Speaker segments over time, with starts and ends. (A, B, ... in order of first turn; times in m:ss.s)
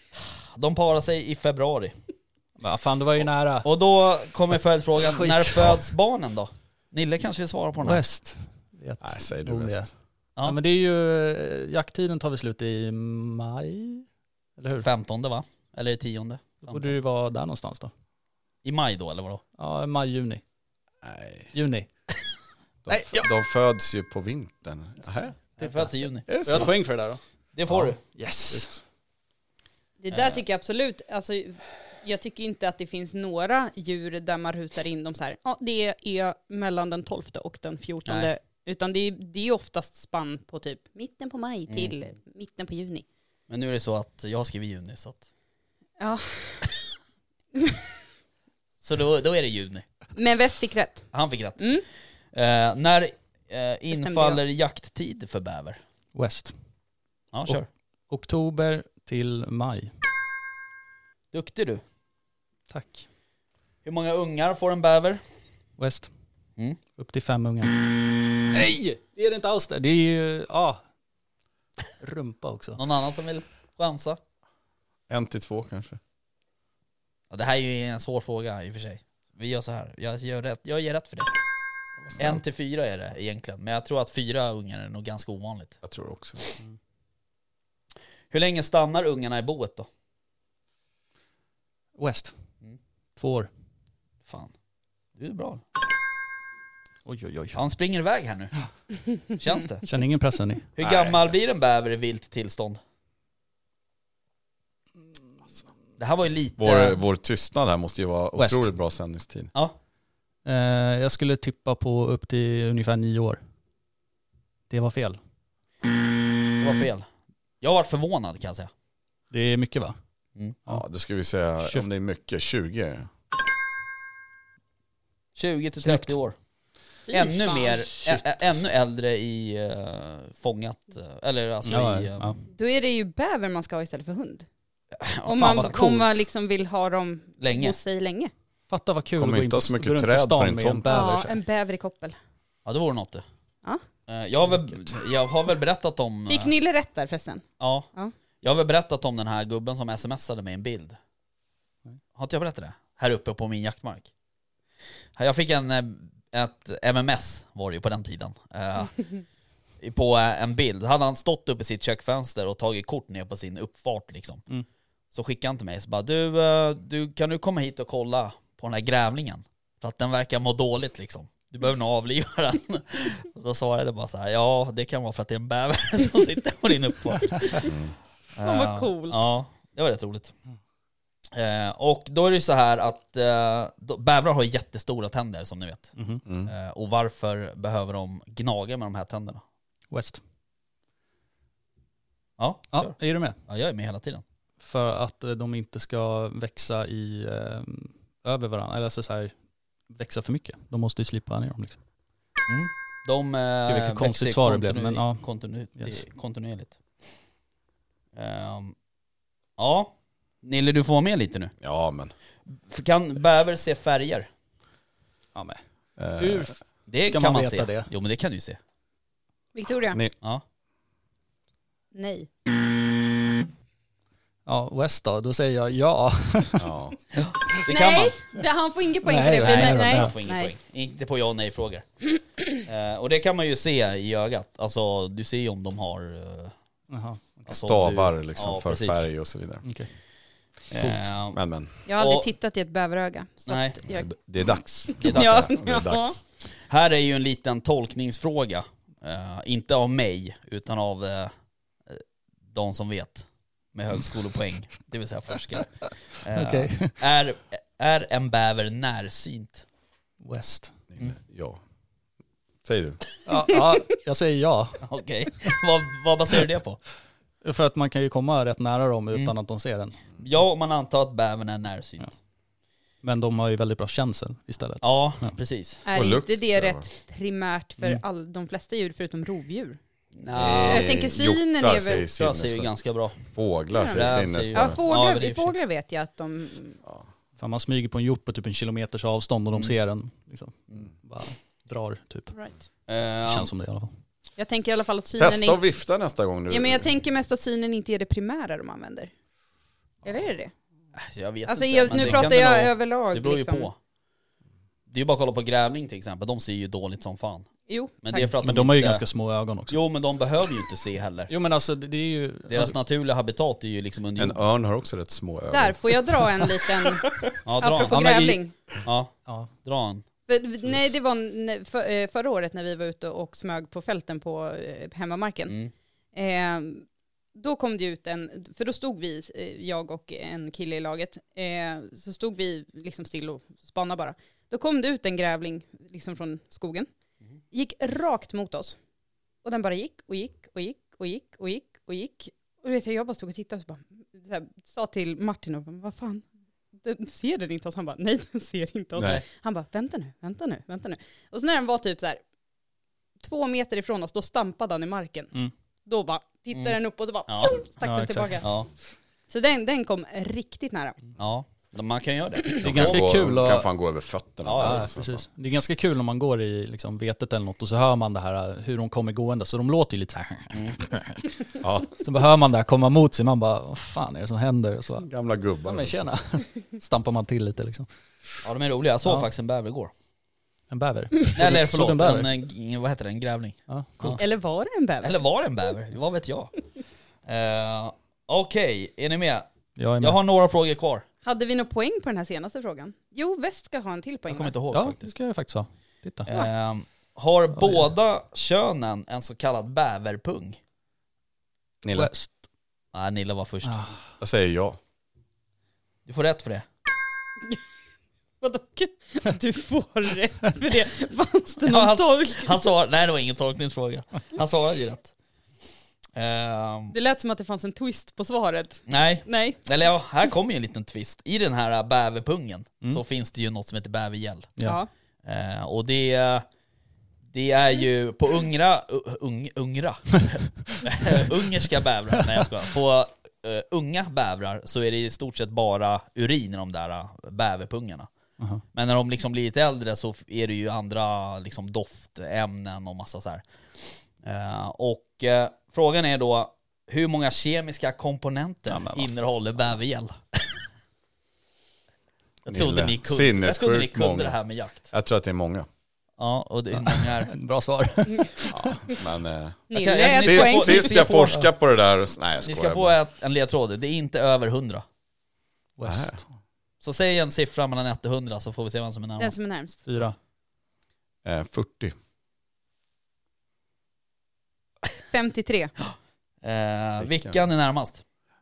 0:00.5-0:02.0 A
0:02.6-0:03.7 B
0:03.6-0:08.0 A
0:05.0-0:05.8 B
0:07.8-0:09.9 B
0:09.0-0:09.9 C
0:10.4-0:14.0 B
0:14.6-0:14.9 B
0:14.8-0:17.0 A
0:16.6-0:17.9 B
0:18.6-0:19.4 A
0:19.6-0:20.4 B
0:21.0-0:21.5 C
0:21.5-0:21.9 B
0:22.8-0:25.4 C
0:22.9-0:23.3 B
0:25.6-0:26.7 A
0:25.6-0:28.8 B
0:26.3-0:26.8 C
0:27.6-0:28.0 A
0:30.0-0:43.0 D
0:30.1-0:30.4 A
0:38.1-0:38.3 A
0:41.7-0:41.9 A
0:43.5-0:45.3 A
0:46.0-0:46.7 D
0:48.8-0:49.8 A
0:50.2-0:51.8 D
0:51.1-0:51.7 A
0:52.3-0:55.8 A
0:53.9-0:54.4 D
0:56.1-0:56.6 B
0:57.3-0:57.7 A
0:58.1-0:59.9 B
1:01.3-1:01.8 A
1:02.7-1:03.0 B
1:03.8-1:05.2 A
1:05.8-1:06.1 B
1:07.0-1:10.8 B
1:12.0-1:12.8 B
1:12.8-1:14.2 A
1:15.1-1:16.0 C
1:17.3-1:21.3 A
1:22.0-1:22.4 C
1:22.2-1:25.8 A
1:25.8-1:26.4 C
1:28.3-1:29.9 A
1:32.0-1:32.3 B
1:33.2-1:33.5 B
1:34.3-1:34.5 A
1:35.2-1:35.6 A
1:37.1-1:37.6 B
1:37.5-1:38.5 A
1:39.4-1:39.9 A
1:39.8-1:40.7 B
1:40.8-1:42.8 A
1:40.8-1:41.2 C
1:46.0-1:47.0 A
1:46.6-1:49.5 C
1:48.4-1:48.7 B
1:50.4-1:53.4 B
1:54.7-1:55.2 B
1:56.6-1:57.1 A
1:57.6-1:58.7 A
1:59.3-2:00.0 B
2:00.7-2:03.1 C
2:05.4-2:06.4 A
2:05.8-2:06.2 B
2:07.1-2:07.8 D
2:07.1-2:12.5 A
2:08.0-2:08.4 B
2:11.6-2:12.4 B
2:12.5-2:14.5 D
2:15.0-2:15.7 A
2:15.3-2:18.3 D
2:15.4-2:16.2 B
2:17.4-2:17.8 A
2:18.7-2:21.4 B
2:19.2-2:21.0 C
2:20.9-2:22.2 D
2:22.7-2:23.2 A
2:24.1-2:26.5 A
2:26.3-2:28.1 D
2:27.6-2:27.9 A
2:28.4-2:31.0 A
2:32.2-2:34.1 A
2:35.2-2:39.0 A
2:39.8-2:44.4 A
2:45.1-2:57.7 A
2:57.6-2:58.0 C
2:58.4-3:00.3 A
2:58.4-2:59.2 D
3:01.3-3:05.9 A
3:06.0-3:06.2 B
3:06.3-3:06.5 C
3:06.4-3:09.4 A
3:09.9-3:10.2 B
3:12.4-3:14.2 A
3:12.7-3:13.4 B
3:14.6-3:19.3 B
3:19.9-3:21.8 B
3:22.5-3:26.8 A
3:23.7-3:26.0 B
3:28.2-3:28.8 A
3:29.6-3:31.5 A
3:31.6-3:32.1 C
3:32.5-3:34.3 A
3:35.4-3:35.6 B
3:36.0-3:36.6 C
3:36.2-3:37.9 B
3:36.9-3:38.6 A
3:39.5-3:40.0 D
3:41.9-3:42.3 D
3:44.5-3:46.7 B
3:46.6-3:47.0 C
3:47.1-3:48.2 A
3:47.7-3:50.5 D
3:49.0-3:50.1 B
3:49.4-3:51.9 A
3:52.6-3:56.5 A
3:56.9-3:58.0 B
3:57.5-3:59.1 A
3:57.5-3:59.6 C
3:59.6-3:59.9 B
4:00.7-4:01.4 A
4:00.8-4:01.7 C
4:01.9-4:04.1 D
4:02.0-4:02.3 A
4:03.5-4:03.8 A
4:03.9-4:06.2 C
4:04.9-4:06.2 D
4:05.0-4:05.5 A
4:06.5-4:11.3 A
4:11.9-4:19.6 A
4:16.3-4:17.0 B
4:20.2-4:20.7 B
4:20.9-4:21.6 C
4:22.6-4:23.0 C
4:23.2-4:24.8 B
4:24.8-4:26.8 A
4:27.4-4:30.0 B
4:30.2-4:32.2 A
4:33.0-4:35.4 B
4:34.8-4:35.8 A
4:35.9-4:39.8 D
4:35.9-4:36.9 C
4:40.2-4:40.9 A
4:40.3-4:44.8 C
4:40.5-4:42.1 D
4:42.1-4:43.2 A
4:43.7-4:46.8 D
4:43.9-4:45.6 A
4:47.4-4:52.3 B
4:52.9-4:53.5 A
4:53.2-4:53.9 B
4:54.4-4:55.6 D
4:55.2-4:56.9 C
4:56.5-4:59.1 D
5:00.0-5:00.5 D
5:01.0-5:03.8 A
5:01.5-5:03.7 D
5:01.9-5:02.3 B
5:04.9-5:07.5 A
5:07.7-5:08.3 D
5:08.0-5:09.0 A
5:08.2-5:09.8 B
5:09.7-5:11.3 A
5:11.3-5:12.8 B
5:12.5-5:14.4 A
5:14.2-5:16.7 C
5:15.5-5:18.5 D
5:17.4-5:18.0 A
5:17.8-5:18.4 B
5:18.8-5:20.0 A
5:19.3-5:19.5 B
5:20.3-5:25.6 D
5:26.1-5:36.9 D
5:37.5-5:38.8 D
5:39.4-5:46.2 D
5:46.8-5:52.2 D
5:49.0-5:49.2 C
5:53.2-5:55.3 D
5:55.9-5:58.5 D
5:56.5-5:57.6 A
5:57.8-5:58.5 B
5:58.4-5:58.7 A
5:59.3-6:01.0 D
6:01.2-6:03.0 A
6:02.6-6:05.2 C
6:02.6-6:03.7 B
6:04.4-6:04.9 A
6:04.6-6:11.3 B
6:10.5-6:10.8 A
6:11.6-6:11.9 C
6:12.0-6:15.1 B
6:15.0-6:16.0 C
6:15.6-6:17.9 B
6:18.4-6:19.9 A
6:20.7-6:22.3 B
6:21.3-6:24.2 A
6:23.7-6:24.2 B
6:24.2-6:25.2 D
6:25.0-6:26.6 A
6:27.3-6:29.5 A
6:29.8-6:30.2 B
6:30.0-6:31.0 A
6:31.2-6:34.5 D
6:34.3-6:35.2 A
6:34.7-6:36.3 B
6:36.3-6:40.6 A
6:37.6-6:37.9 B
6:41.8-6:42.1 C
6:41.9-6:42.4 B
6:42.9-6:43.8 A
6:43.6-6:44.1 B
6:44.2-6:44.8 C
6:46.1-6:46.7 A
6:48.4-6:52.6 D
6:51.6-6:55.1 A
6:56.2-6:57.0 A
6:56.9-6:59.6 D
6:58.9-7:04.5 A
7:04.6-7:04.9 D
7:05.2-7:06.4 A
7:07.3-7:18.1 A
7:18.7-7:23.4 A
7:24.2-7:30.6 A
7:28.7-7:29.1 B
7:32.5-7:34.9 A
7:32.5-7:35.7 C
7:36.2-7:37.3 A
7:36.7-7:38.8 B
7:38.5-7:43.0 C
7:39.7-7:41.3 D
7:39.7-7:41.3 A
7:42.4-7:44.8 A
7:45.8-7:46.2 B
7:45.8-7:46.2 C
7:46.8-7:49.4 A
7:49.2-7:49.8 D
7:49.9-7:50.2 B
7:51.2-7:51.9 C
7:55.1-7:55.7 D
7:55.9-7:58.0 A
7:57.0-7:57.4 C